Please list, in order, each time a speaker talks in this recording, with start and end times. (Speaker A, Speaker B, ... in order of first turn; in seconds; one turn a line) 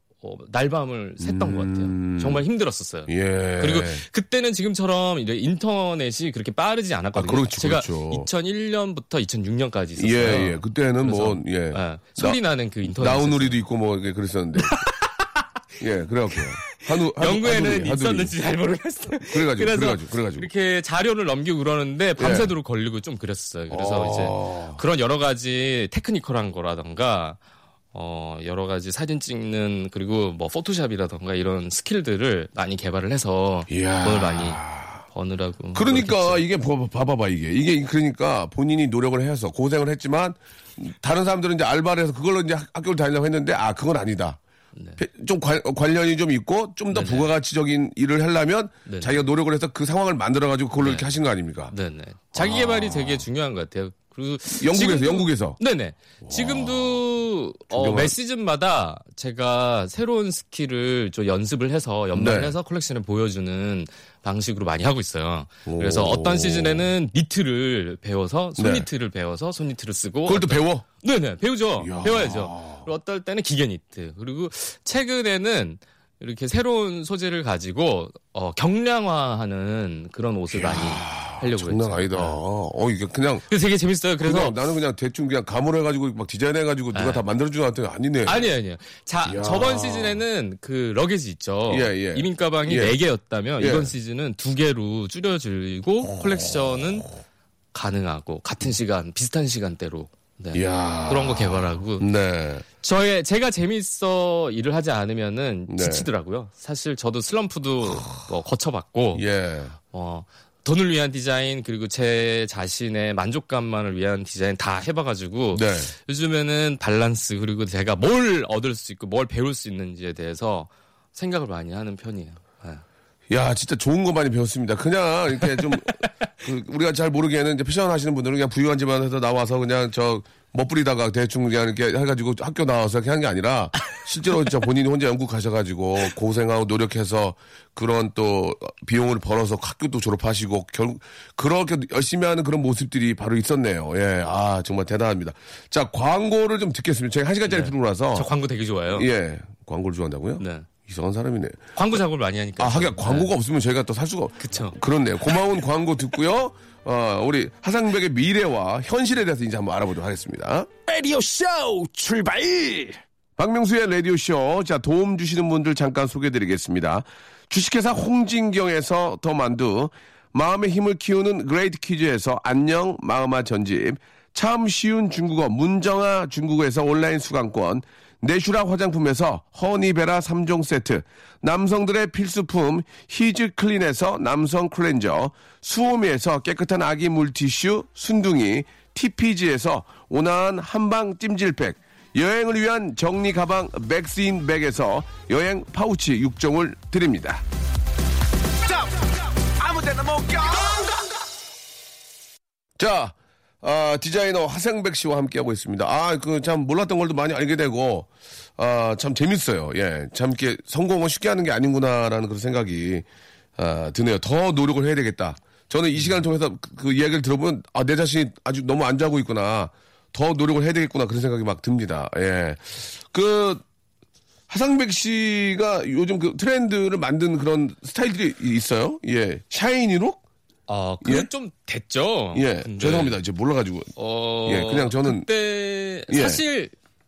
Speaker A: 0.2-13.6
Speaker B: 1.2-2.4
Speaker B: 3.1-4.0
Speaker B: 7.2-8.3
Speaker B: 10.0-14.8
Speaker A: 14.6-15.4
Speaker B: 15.8-18.3
Speaker A: 16.4-27.4
Speaker B: 19.3-20.5
Speaker B: 22.2-22.5
Speaker B: 23.7-24.8
Speaker A: 27.9-36.4
Speaker B: 33.7-35.0
Speaker B: 35.7-44.4
Speaker B: 45.0-51.7
Speaker A: 46.9-47.3
Speaker A: 48.9-49.2
Speaker A: 50.8-51.1
Speaker A: 51.7-82.4
Speaker B: 52.4-53.2
Speaker B: 54.5-55.6
Speaker B: 56.2-57.0
Speaker B: 57.7-58.1
Speaker B: 62.1-62.5
Speaker B: 65.7-66.9
Speaker B: 68.6-68.9
Speaker B: 70.3-70.8
Speaker B: 71.8-72.8
Speaker B: 80.5-83.5
Speaker A: 83.5-84.6
Speaker B: 84.2-88.4
Speaker A: 86.9-87.2
Speaker A: 88.2-97.1
Speaker B: 89.3-90.2
Speaker B: 91.7-93.0
Speaker B: 93.6-93.9
Speaker B: 96.1-96.8
Speaker A: 97.7-102.1
Speaker B: 100.5-102.7
Speaker A: 102.8-109.2
Speaker B: 105.7-106.1
Speaker B: 109.2-109.8
Speaker A: 109.8-122.8
Speaker B: 115.5-115.9
Speaker B: 123.3-148.3
Speaker A: 125.4-126.1
Speaker A: 147.5-149.1
Speaker B: 148.9-151.6
Speaker A: 150.4-150.7
Speaker A: 151.8-153.3
Speaker B: 152.6-160.7
Speaker A: 154.4-154.8
Speaker C: 160.9-163.0
Speaker B: 163.4-197.4
Speaker C: 199.6-200.9
Speaker B: 202.8-213.1
Speaker B: 213.6-223.6
Speaker B: 224.5-230.2
Speaker A: 230.7-233.2
Speaker B: 231.0-231.3
Speaker B: 232.3-233.9
Speaker A: 234.0-236.7
Speaker B: 234.5-235.3
Speaker B: 236.1-236.4